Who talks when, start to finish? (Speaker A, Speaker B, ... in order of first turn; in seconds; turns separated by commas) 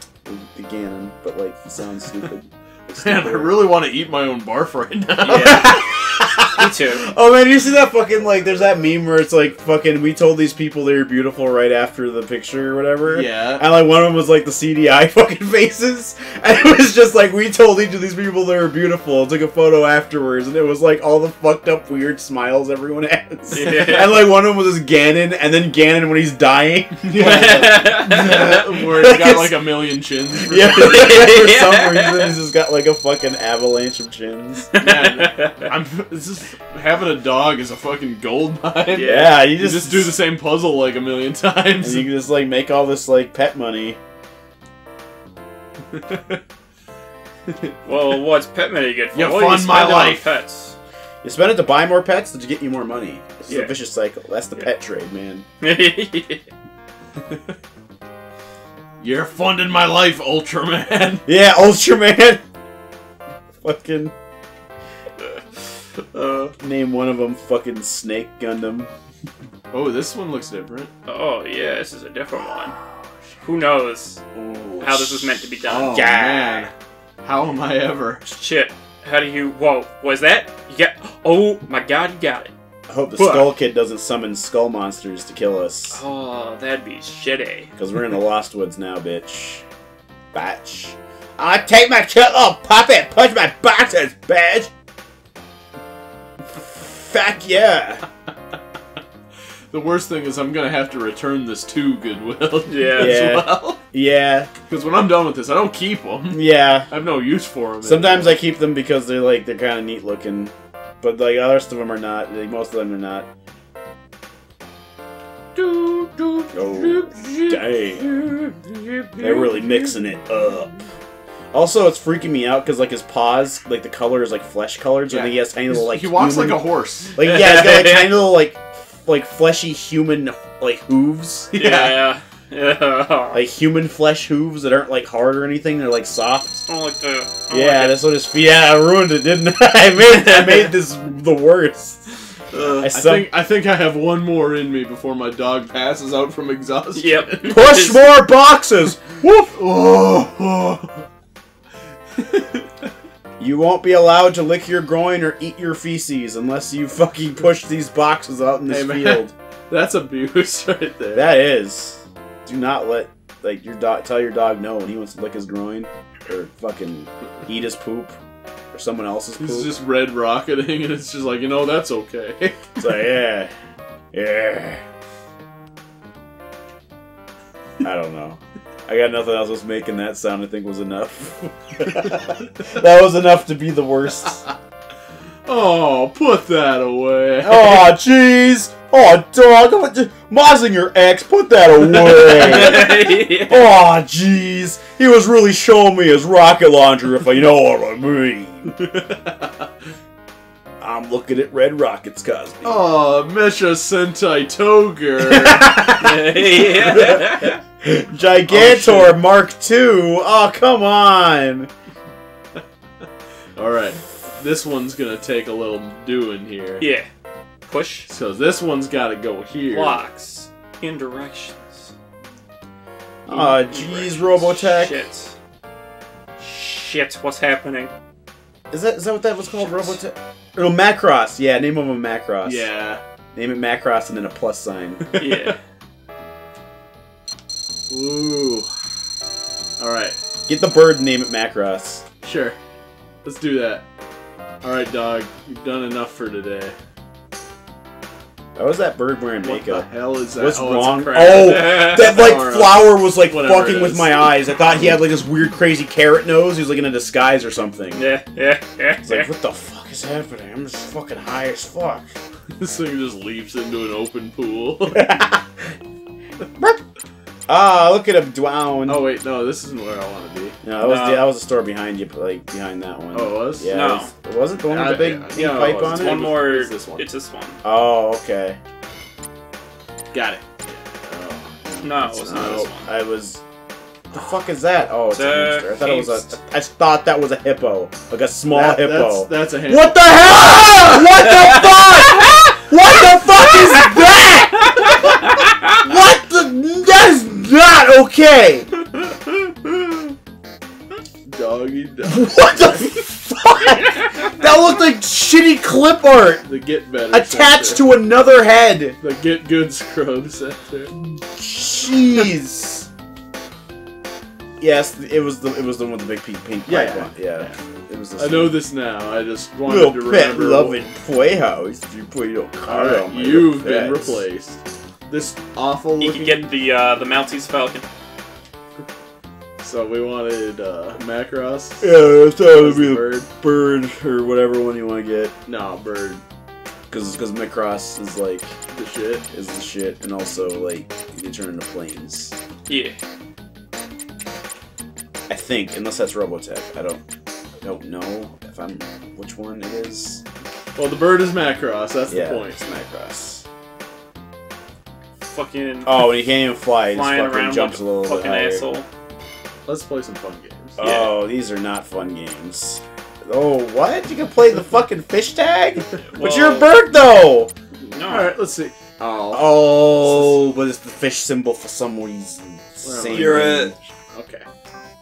Speaker A: 0.2-3.6, Speaker B: 3.0-5.8, Speaker C: 5.2-5.8, Speaker A: 5.3-29.7, Speaker C: 6.4-7.0, Speaker B: 13.1-13.6, Speaker C: 23.5-24.2, Speaker B: 27.1-31.2, Speaker C: 27.1-28.5, Speaker A: 30.3-34.7, Speaker C: 30.7-32.4, Speaker C: 34.7-35.7, Speaker B: 34.8-42.1, Speaker C: 38.9-39.4, Speaker A: 39.0-40.1, Speaker A: 41.8-44.0, Speaker B: 45.9-46.4, Speaker C: 47.8-50.8, Speaker B: 49.1-50.3, Speaker A: 51.2-55.4, Speaker C: 53.5-53.7, Speaker C: 55.6-56.5, Speaker B: 59.0-61.2, Speaker A: 61.2-62.4, Speaker A: 63.6-64.1, Speaker C: 66.1-66.5, Speaker A: 66.6-68.9, Speaker B: 69.7-70.9, Speaker C: 71.0-72.7, Speaker C: 73.4-74.2, Speaker A: 74.3-75.4, Speaker C: 74.8-76.0, Speaker B: 75.6-78.2, Speaker A: 75.9-76.7, Speaker C: 78.2-82.5, Speaker A: 82.9-86.0, Speaker C: 83.2-83.5, Speaker C: 85.9-87.7, Speaker A: 87.8-89.6, Speaker A: 90.3-94.7, Speaker A: 96.5-98.0, Speaker B: 99.7-103.8, Speaker C: 102.7-103.3, Speaker A: 103.0-104.5, Speaker B: 104.7-108.4, Speaker A: 106.3-106.9, Speaker A: 107.8-113.3, Speaker C: 115.5-117.5, Speaker A: 116.5-118.1, Speaker C: 118.0-119.3, Speaker A: 119.2-120.7, Speaker A: 121.5-126.6, Speaker B: 125.1-127.2, Speaker A: 127.1-131.5, Speaker C: 127.2-128.2, Speaker B: 131.5-132.0, Speaker C: 131.5-133.4, Speaker A: 133.3-136.7, Speaker C: 136.7-138.0, Speaker A: 137.5-142.1, Speaker C: 140.2-140.7, Speaker C: 142.5-142.9, Speaker A: 142.8-143.3, Speaker B: 142.9-147.6, Speaker C: 146.9-148.0, Speaker A: 147.4-149.6, Speaker B: 149.6-151.0, Speaker B: 152.2-152.7, Speaker A: 153.4-159.3, Speaker B: 158.7-161.3, Speaker A: 161.1-168.2, Speaker A: 168.7-169.7, Speaker B: 169.4-172.8, Speaker A: 172.8-173.5, Speaker A: 174.1-174.8, Speaker A: 177.8-184.4, Speaker B: 185.4-187.9, Speaker A: 187.4-198.7, Speaker C: 191.9-193.7, Speaker B: 198.8-199.5, Speaker A: 200.8-202.9, Speaker B: 202.6-205.7, Speaker A: 205.2-211.7, Speaker C: 205.9-207.6, Speaker B: 208.5-209.2, Speaker B: 213.6-216.8, Speaker C: 216.8-217.1, Speaker C: 217.7-218.1, Speaker B: 218.1-220.0, Speaker C: 219.7-221.9, Speaker A: 223.3-225.1, Speaker C: 223.3-225.3, Speaker C: 226.4-227.9, Speaker A: 228.7-232.7, Speaker B: 232.4-233.0, Speaker A: 233.3-235.2, Speaker B: 235.0-235.5, Speaker C: 235.1-235.6, Speaker B: 237.9-238.7, Speaker B: 239.8-240.2, Speaker A: 240.5-242.0, Speaker B: 242.2-242.6, Speaker B: 243.2-243.8, Speaker B: 244.6-246.7, Speaker A: 248.6-258.0, Speaker B: 249.4-254.3, Speaker C: 251.3-252.2, Speaker C: 257.9-259.3, Speaker A: 259.0-262.1, Speaker B: 262.6-265.1, Speaker A: 264.9-265.7, Speaker A: 267.5-269.1, Speaker B: 268.9-270.6, Speaker A: 270.6-276.2, Speaker C: 270.8-271.3, Speaker B: 273.1-273.7, Speaker C: 273.7-274.1, Speaker B: 274.7-277.0, Speaker C: 275.8-277.6, Speaker A: 277.6-278.6, Speaker B: 280.1-281.6, Speaker A: 281.6-283.4, Speaker C: 281.8-282.9, Speaker B: 282.4-282.6, Speaker A: 284.1-298.7, Speaker C: 285.1-286.4, Speaker B: 288.5-291.2, Speaker C: 291.3-292.4, Speaker C: 294.6-295.8, Speaker B: 301.3-302.4, Speaker A: 302.1-306.4, Speaker B: 306.4-307.9, Speaker A: 307.1-309.0, Speaker B: 309.0-310.9, Speaker A: 311.1-312.9, Speaker A: 314.6-318.6, Speaker B: 316.6-317.6, Speaker B: 318.2-320.8, Speaker A: 319.6-324.2, Speaker B: 322.6-326.5, Speaker C: 326.0-327.8, Speaker B: 329.6-332.0, Speaker A: 331.8-335.3, Speaker B: 332.5-333.3, Speaker B: 335.4-336.2, Speaker A: 336.9-338.6, Speaker B: 338.7-339.2, Speaker A: 339.3-342.4, Speaker C: 342.7-343.0, Speaker A: 345.3-347.0, Speaker A: 347.6-350.2, Speaker B: 350.8-352.6, Speaker A: 352.1-353.4, Speaker C: 355.3-356.2, Speaker A: 355.8-358.7, Speaker C: 356.9-358.9, Speaker B: 359.6-360.8, Speaker A: 360.8-367.5, Speaker C: 360.8-361.1, Speaker C: 366.1-366.8, Speaker C: 367.8-368.3, Speaker B: 368.1-370.4, Speaker A: 369.3-373.7, Speaker B: 372.8-374.4, Speaker C: 373.1-373.7